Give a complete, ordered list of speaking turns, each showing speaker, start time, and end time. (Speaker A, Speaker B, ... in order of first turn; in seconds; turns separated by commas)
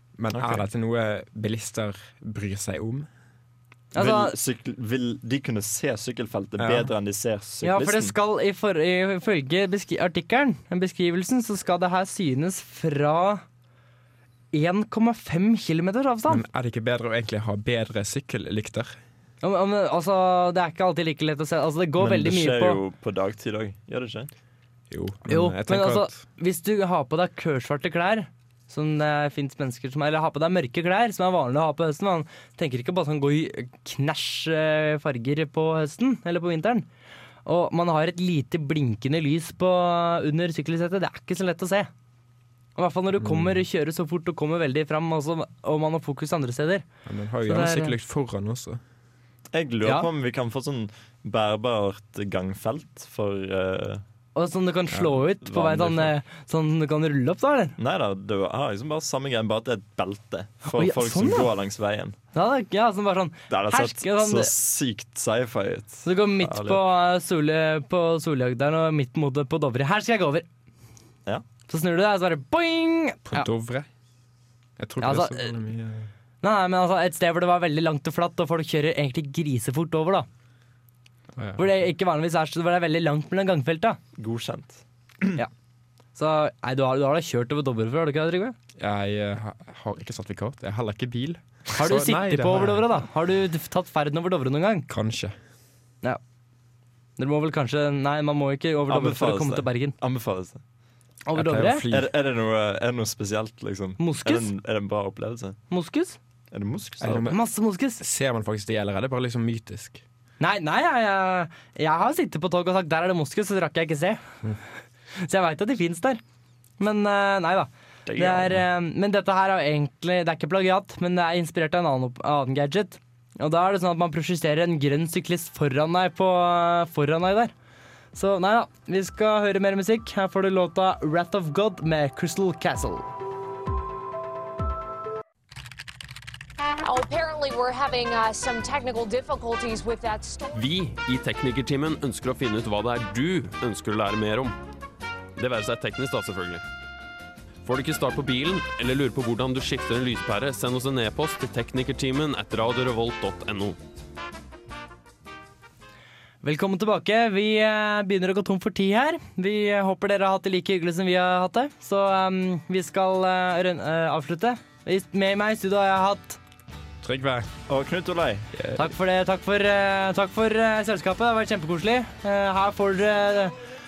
Speaker A: 0.2-3.1, Speaker B: 0.3-0.6, Speaker C: 3.9-4.3, Speaker B: 3.9-8.1, Speaker A: 6.6-6.9, Speaker C: 7.6-13.4, Speaker C: 14.5-16.4, Speaker A: 16.3-18.9, Speaker C: 19.4-22.8, Speaker B: 22.0-24.3, Speaker A: 24.9-26.2, Speaker C: 25.3-36.9, Speaker C: 37.4-41.9, Speaker C: 42.8-46.8, Speaker A: 43.2-43.6, Speaker A: 47.0-48.8, Speaker C: 47.4-48.0, Speaker B: 49.5-54.0, Speaker C: 54.4-57.7, Speaker A: 54.9-55.2, Speaker B: 55.4-56.1, Speaker B: 57.8-62.1, Speaker C: 60.6-61.5, Speaker C: 62.3-64.5, Speaker B: 63.5-66.8, Speaker C: 66.0-70.5, Speaker C: 71.7-73.5, Speaker A: 73.3-73.9, Speaker A: 74.8-76.1, Speaker C: 75.0-75.5, Speaker C: 76.4-80.3, Speaker A: 81.3-81.8, Speaker C: 81.6-84.0, Speaker B: 84.2-85.4, Speaker C: 86.1-88.5, Speaker A: 88.8-92.9, Speaker C: 91.8-94.9, Speaker A: 94.9-95.3, Speaker C: 97.2-100.0, Speaker B: 98.9-100.6, Speaker C: 101.2-101.9, Speaker A: 101.3-102.1, Speaker B: 101.9-105.6, Speaker C: 104.0-104.5, Speaker C: 105.7-106.2, Speaker B: 106.5-107.3, Speaker A: 107.0-107.4, Speaker C: 107.2-108.0, Speaker A: 108.0-110.0, Speaker C: 110.4-114.3, Speaker C: 115.2-116.2, Speaker C: 116.8-127.5, Speaker B: 118.1-118.5, Speaker C: 128.1-133.1, Speaker D: 136.8-140.7, Speaker E: 140.5-144.6, Speaker E: 145.3-146.6, Speaker E: 147.6-153.8, Speaker C: 156.4-166.4, Speaker A: 167.0-167.5, Speaker B: 167.7-168.5, Speaker A: 168.6-168.8, Speaker C: 168.7-173.5